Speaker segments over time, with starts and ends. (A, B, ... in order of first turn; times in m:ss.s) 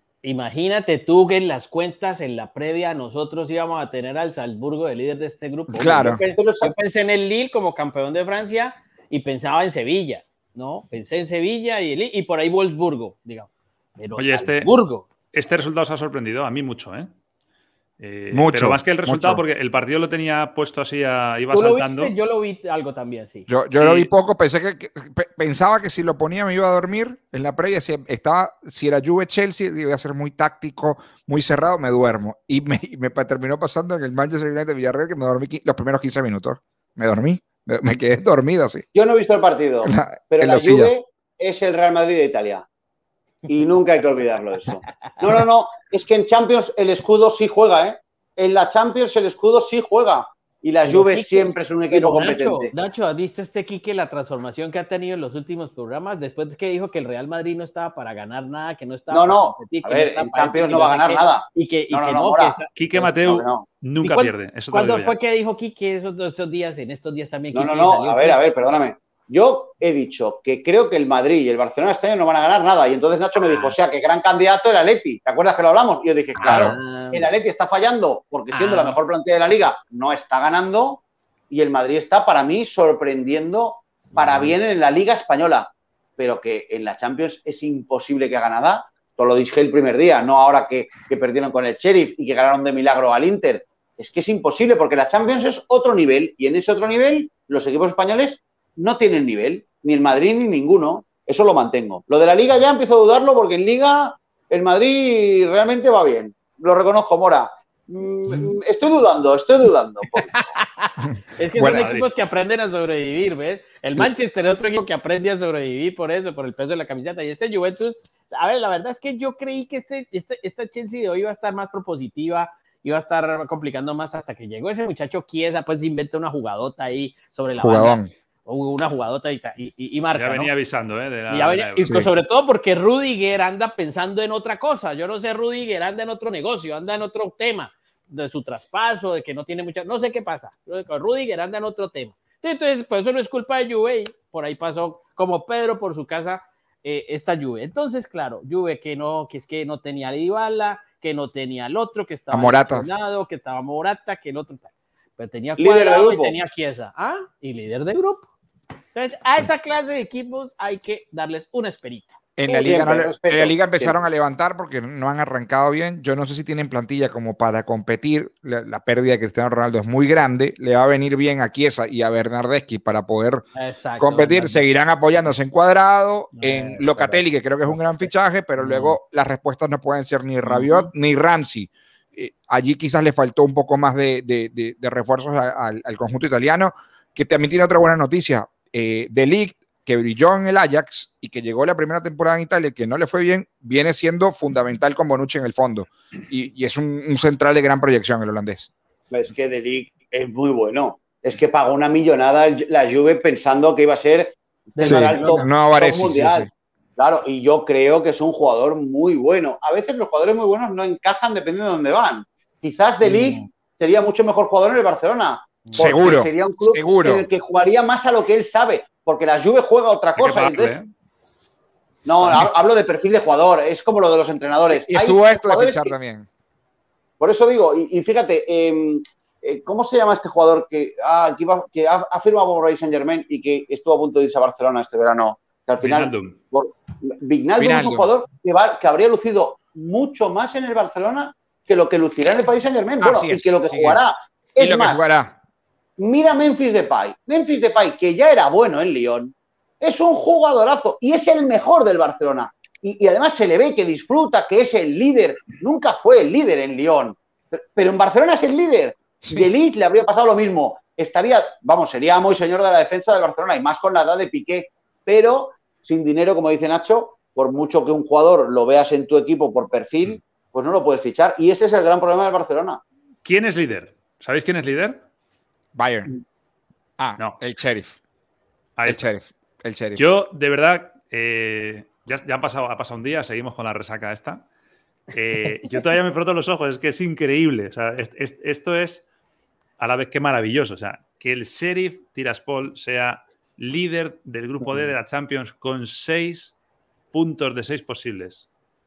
0:00.2-0:15.1 A
0:05.7-0:06.2 B
0:06.0-0:06.7 C
0:14.2-0:14.7 D
0:15.3-0:17.1 D
0:18.0-0:22.1 D
0:18.3-0:19.4 B
0:21.5-0:23.5 A
0:23.5-0:38.8 B
0:23.8-0:24.1 D
0:38.9-0:42.6 C
0:39.8-0:40.9 B
0:43.5-0:52.7 C
0:50.8-1:03.1 A
0:59.1-1:02.6 C
1:02.8-1:05.2 D
1:03.2-1:03.6 C
1:04.0-1:08.4 A
1:07.5-1:50.4 C
1:13.5-1:13.7 A
1:16.3-1:17.3 A
1:16.4-1:16.8 B
1:18.5-1:19.0 A
1:50.1-2:10.5 A
1:51.0-1:51.9 B
1:51.8-1:52.1 D
2:07.6-2:08.1 B
2:10.1-2:12.0 D
2:11.3-2:38.2 A
2:32.3-2:32.9 B
2:35.6-2:36.4 C
2:38.9-2:42.9 A
2:42.4-2:53.4 B
2:42.6-2:44.0 C
2:53.5-2:54.6 A
2:54.0-3:18.7 B
2:56.3-2:59.0 A
3:00.4-3:00.9 A
3:19.1-3:40.8 C
3:24.8-3:25.5 A
3:24.8-3:26.5 B
3:33.0-3:33.4 A
3:35.6-3:35.9 A
3:35.8-3:37.2 B
3:40.2-3:40.9 D
3:42.0-3:45.9 C
3:44.7-3:46.3 B
3:47.2-4:05.0 C
3:55.8-3:56.4 D
3:57.6-3:58.1 B
4:03.0-4:04.0 B
4:04.6-4:05.3 B
4:06.0-4:32.8 C
4:19.2-4:19.5 B
4:33.2-4:35.0 D
4:35.7-4:36.1 B
4:37.0-4:38.0 B
4:38.8-4:39.0 D
4:38.8-4:40.0 B
4:40.0-4:44.4 D
4:45.1-4:49.0 D
4:49.8-4:56.5 D
4:57.1-4:58.5 D